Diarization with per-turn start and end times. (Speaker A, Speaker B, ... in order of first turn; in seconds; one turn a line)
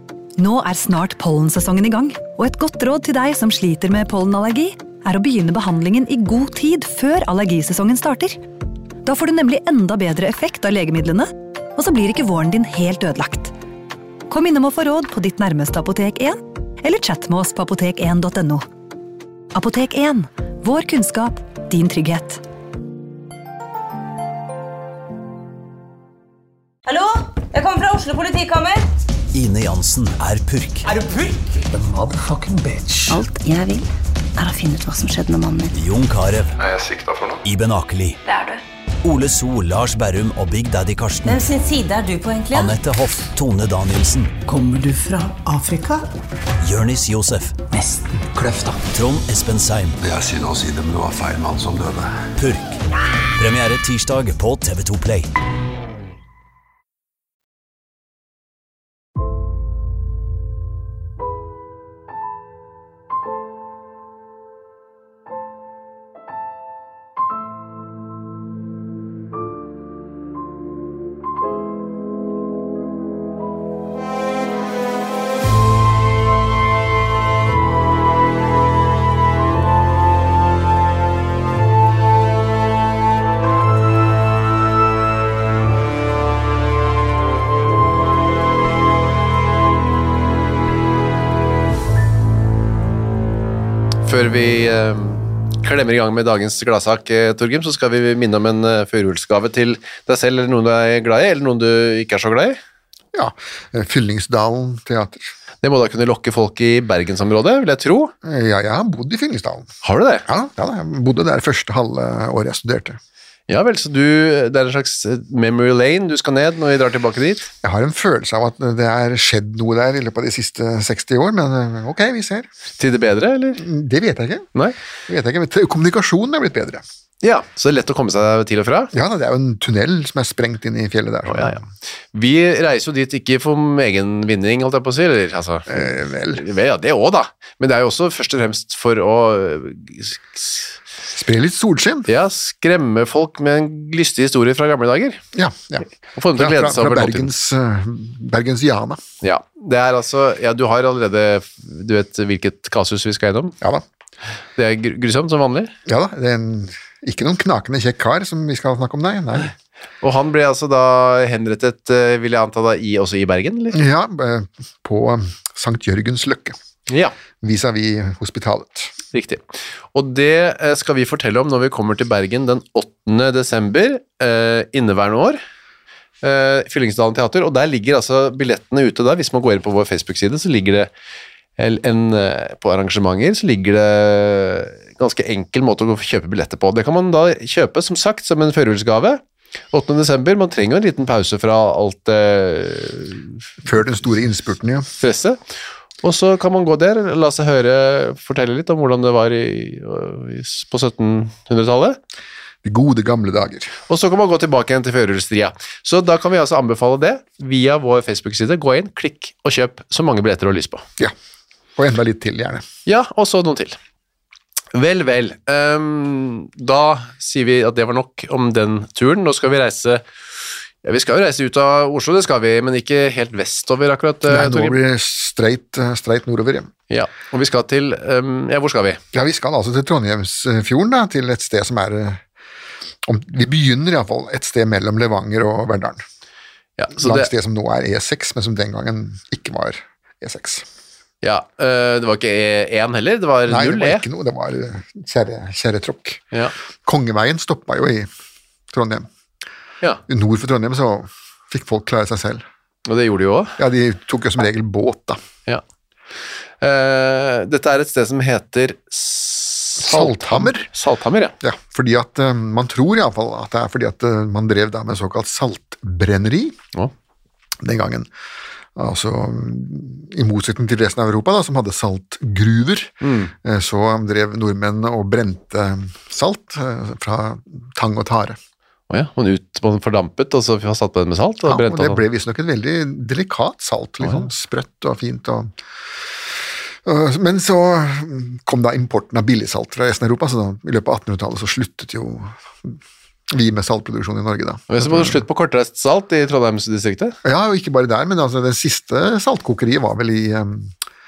Speaker A: 0.4-8.4
Speaker A: 9.0-13.5
Speaker A: 14.3-18.7
Speaker A: 19.5-22.4
Speaker B: 26.9-28.9
Speaker C: 29.3-30.9
Speaker D: 30.9-33.2
Speaker E: 33.1-35.7
Speaker C: 35.7-36.5
Speaker F: 36.6-37.4
Speaker C: 37.5-38.2
Speaker B: 38.2-38.6
Speaker C: 39.0-41.4
Speaker B: 41.2-42.8
Speaker C: 42.5-44.3
Speaker D: 44.5-46.0
Speaker C: 46.6-47.6
Speaker D: 47.7-48.8
Speaker C: 48.9-50.0
Speaker F: 50.0-52.1
Speaker C: 52.4-52.8
Speaker C: 53.3-55.3
Speaker G: 94.0-102.6
Speaker H: 103.1-105.3
Speaker G: 105.6-108.1
Speaker H: 108.2-109.7
Speaker G: 109.8-110.2
Speaker H: 110.3-113.0
Speaker G: 113.5-117.5
Speaker H: 117.6-122.5
Speaker G: 122.8-123.6
Speaker H: 123.6-124.5
Speaker H: 125.1-126.8
Speaker G: 127.2-128.9
Speaker H: 128.9-131.6
Speaker G: 131.3-131.6
Speaker G: 132.1-140.8
Speaker H: 135.7-136.4
Speaker H: 141.1-142.1
Speaker G: 142.1-145.2
Speaker H: 145.3-149.0
Speaker G: 146.2-147.3
Speaker G: 149.2-153.6
Speaker G: 154.6-155.7
Speaker H: 155.8-159.5
Speaker G: 160.0-163.8
Speaker H: 163.7-166.6
Speaker G: 166.9-167.1
Speaker H: 167.4-168.9
Speaker G: 169.1-175.4
Speaker G: 176.2-180.9
Speaker G: 181.6-193.3
Speaker H: 193.6-194.9
Speaker G: 195.0-195.4
Speaker G: 196.0-202.0
Speaker H: 202.6-203.8
Speaker G: 203.9-210.8
Speaker H: 211.8-212.7
Speaker G: 212.8-213.8
Speaker G: 214.7-220.0
Speaker G: 220.8-224.8
Speaker H: 224.2-226.7
Speaker G: 226.9-229.0
Speaker H: 229.1-232.2
Speaker H: 233.0-236.0
Speaker G: 236.8-237.3
Speaker H: 237.0-240.7
Speaker G: 241.2-244.0
Speaker H: 243.5-246.2
Speaker H: 246.8-248.1
Speaker H: 248.7-249.1
Speaker H: 250.1-252.4
Speaker G: 252.9-253.6
Speaker H: 253.6-255.2
Speaker G: 256.6-261.4
Speaker H: 259.8-260.7
Speaker H: 261.4-266.6
Speaker H: 267.6-268.1
Speaker H: 268.8-278.4
Speaker G: 273.0-273.3
Speaker G: 278.9-282.0
Speaker H: 281.4-285.5
Speaker H: 286.8-292.8
Speaker H: 293.3-295.2
Speaker G: 294.7-297.2
Speaker H: 297.2-300.7